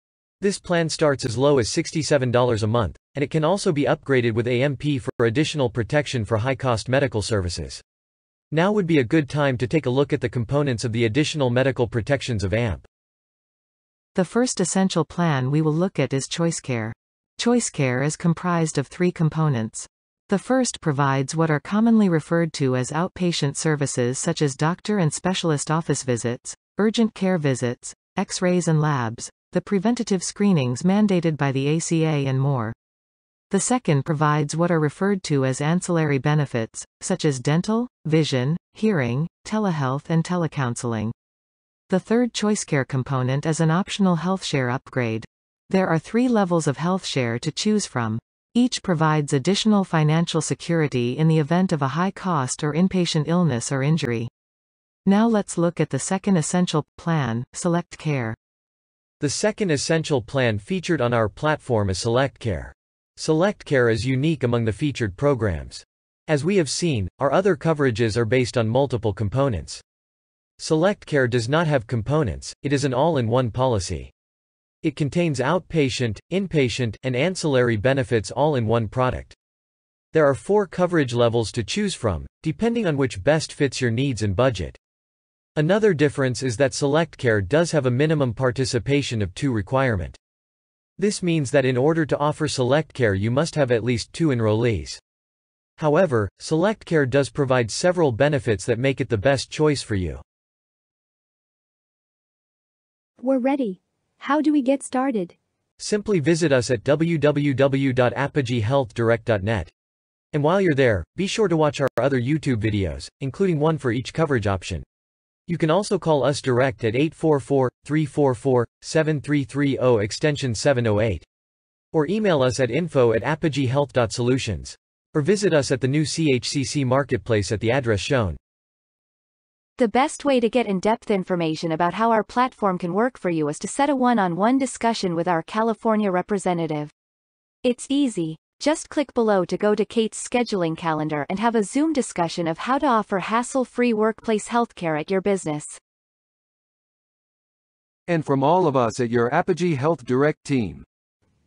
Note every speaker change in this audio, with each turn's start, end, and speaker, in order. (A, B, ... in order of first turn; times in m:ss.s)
0:00.4-0:07.8 A
0:08.5-0:12.9 A
0:14.1-0:32.7 B
0:33.5-0:41.1 B
0:41.9-0:54.3 B
0:55.0-0:58.4 B
0:59.2-1:09.8 A
1:10.6-1:14.1 A
1:14.8-1:19.4 A
1:20.1-1:24.8 A
1:25.6-1:30.2 A
1:31.0-1:35.0 A
1:35.8-1:40.2 A
1:43.2-1:45.3 C
1:45.8-1:49.7 A
1:50.3-1:54.8 A
1:55.5-2:01.2 A
2:01.9-2:08.4 A
2:09.8-2:16.9 C
2:17.6-2:25.8 C
2:28.1-2:30.8 D